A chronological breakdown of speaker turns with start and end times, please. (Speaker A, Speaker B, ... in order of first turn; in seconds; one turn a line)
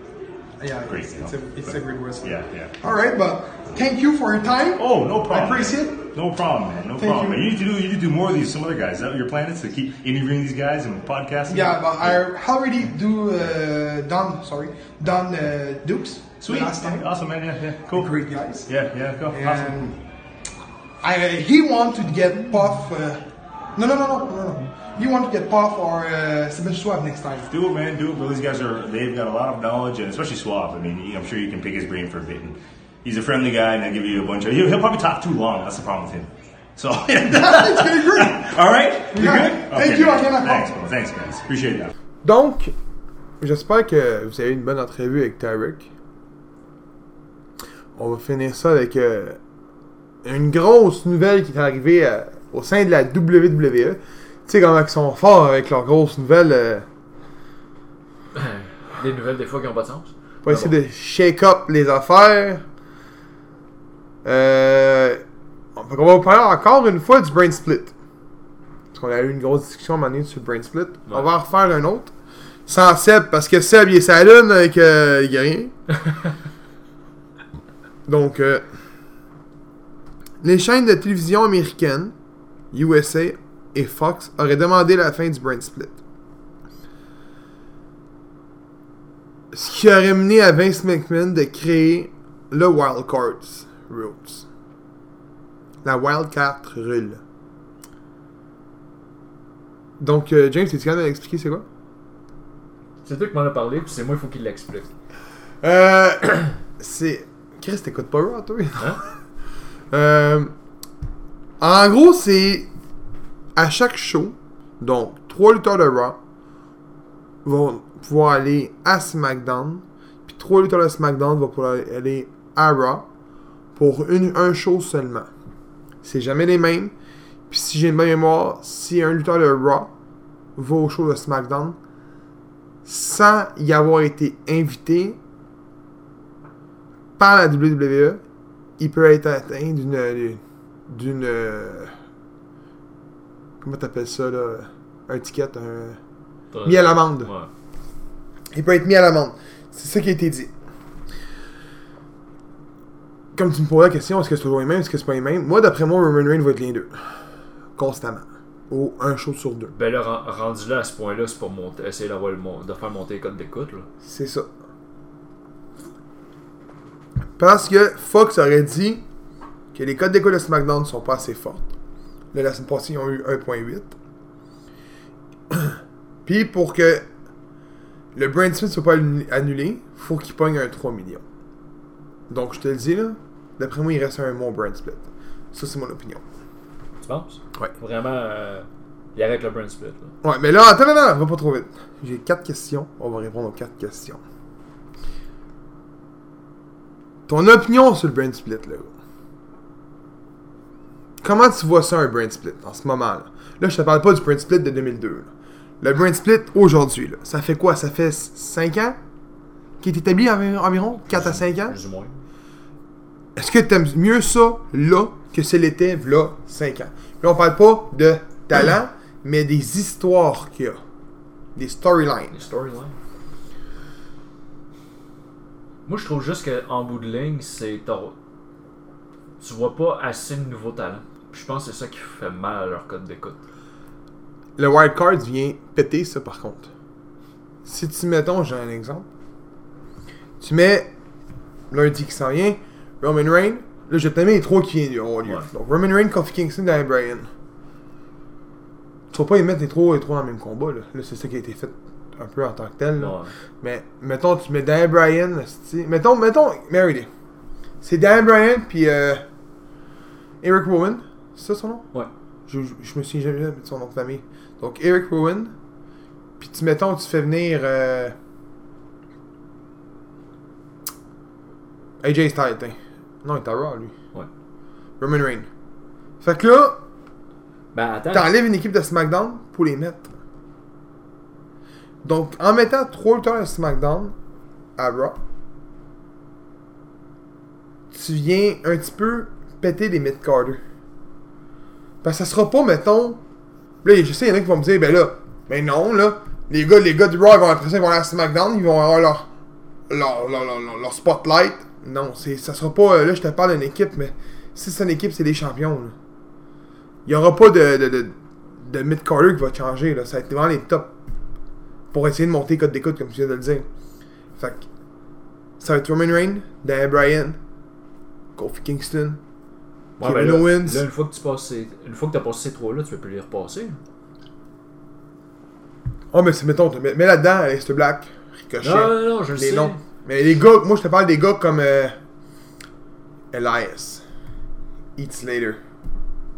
Speaker A: 0.6-6.0
Speaker B: 0.8-2.7
Speaker B: 4.8-12.2
Speaker A: 7.0-7.4
Speaker A: 11.5-17.1
Speaker B: 16.4-19.8
Speaker A: 17.9-18.7
Speaker A: 19.3-20.0
Speaker A: 21.0-27.5
Speaker B: 27.5-41.9
Speaker A: 37.2-38.6
Speaker A: 39.1-40.7
Speaker C: 42.2-42.7
Speaker C: 43.4-45.9
Speaker C: 48.0-49.4
Speaker C: 50.2-56.9
Speaker D: 58.3-60.7
Speaker C: 60.4-62.6
Speaker C: 64.2-65.2
Speaker C: 65.7-67.9
Speaker C: 68.9-72.1
Speaker C: 72.7-75.7
Speaker C: 78.0-78.7
Speaker C: 80.4-82.1
Speaker C: 82.7-86.0
Speaker C: 89.5-94.5
Speaker C: 95.8-97.2
Speaker C: 100.0-101.6
Speaker D: 103.0-104.9
Speaker C: 105.6-109.2
Speaker C: 109.9-110.5
Speaker C: 111.6-112.7
Speaker C: 113.5-116.2
Speaker C: 117.4-123.1
Speaker C: 123.7-125.3
Speaker C: 126.0-126.9
Speaker C: 127.5-129.9
Speaker C: 130.6-131.8
Speaker C: 132.8-135.2
Speaker C: 137.2-138.2
Speaker C: 138.8-141.9
Speaker C: 143.6-146.0
Speaker D: 146.5-147.5
Speaker C: 146.6-147.3
Speaker C: 148.5-150.5
Speaker C: 153.3-159.7
Speaker D: 159.7-163.9
Speaker C: 164.0-164.5
Speaker C: 167.4-169.0
Speaker C: 169.7-171.7
Speaker C: 172.3-173.9
Speaker C: 175.5-177.1
Speaker C: 178.1-181.2
Speaker C: 182.3-186.2
Speaker D: 187.0-190.1
Speaker C: 190.2-194.2
Speaker C: 197.3-198.9
Speaker C: 201.2-209.0
Speaker C: 209.8-211.8
Speaker D: 211.1-212.2
Speaker C: 213.3-220.8
Speaker C: 221.6-222.3
Speaker D: 222.3-222.9
Speaker D: 225.8-228.2
Speaker D: 229.4-233.4
Speaker C: 234.6-236.7
Speaker C: 237.6-239.1
Speaker C: 240.4-240.9
Speaker C: 241.7-247.3
Speaker C: 249.1-257.1
Speaker D: 253.0-253.3
Speaker C: 257.8-259.2
Speaker C: 260.4-261.9
Speaker C: 262.5-265.5
Speaker C: 266.4-268.2
Speaker C: 272.0-273.9
Speaker C: 275.0-275.5
Speaker C: 276.2-276.8
Speaker D: 277.7-278.3
Speaker C: 278.1-280.2
Speaker C: 282.0-284.1
Speaker C: 284.8-285.2
Speaker C: 287.9-290.6
Speaker C: 292.0-293.2
Speaker C: 293.8-299.3
Speaker C: 299.9-305.9
Speaker C: 307.1-310.9
Speaker C: 311.9-313.7
Speaker C: 314.4-314.7
Speaker C: 315.6-317.4
Speaker C: 318.3-319.2
Speaker D: 320.0-323.8
Speaker C: 320.0-320.8
Speaker C: 326.1-332.0
Speaker D: 328.6-329.8
Speaker C: 333.3-334.0
Speaker C: 334.9-335.6